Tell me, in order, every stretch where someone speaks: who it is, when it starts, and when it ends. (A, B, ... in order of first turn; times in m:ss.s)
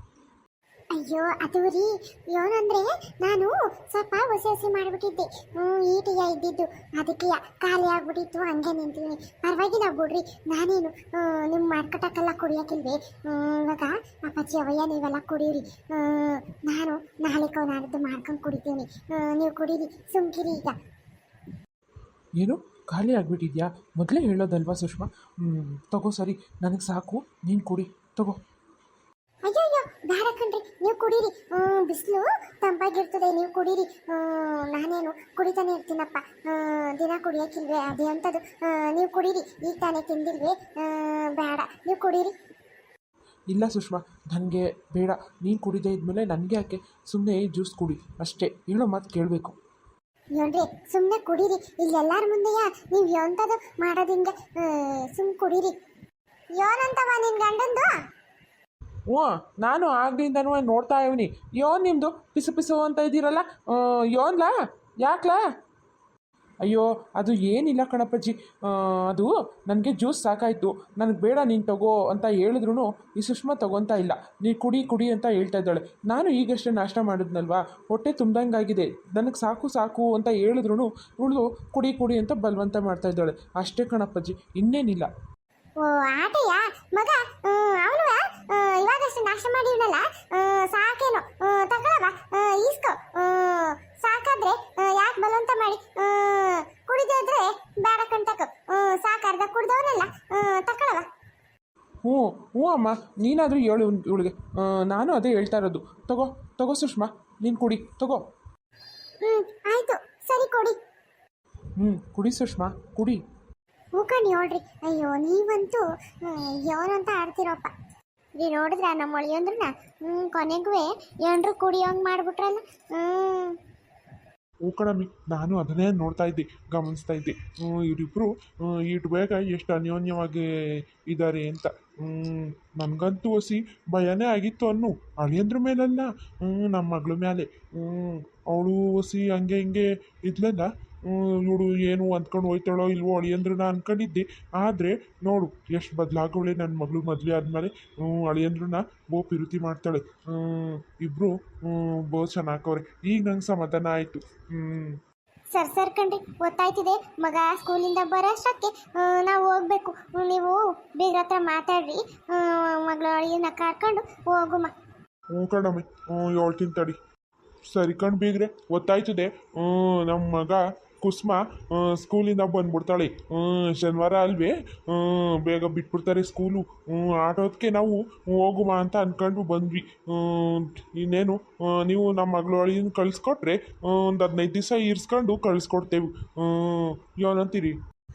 0:00.9-0:20.8 A
0:22.4-0:28.4 B
0:29.5-0:42.3 A
0:43.5-0:49.6 B
0:50.4-0:55.8 A
0:56.6-0:57.9 A
0:59.1-1:05.4 B
1:06.6-1:25.1 B
1:25.8-1:41.1 A
1:42.0-1:48.2 B
1:49.2-1:50.8 A
1:51.8-1:53.2 B
1:54.0-1:57.7 A
1:58.4-2:03.6 A
2:04.6-2:10.5 C
2:11.1-2:35.0 C
2:35.5-2:44.7 A
2:45.3-2:47.0 C
2:47.7-3:07.8 C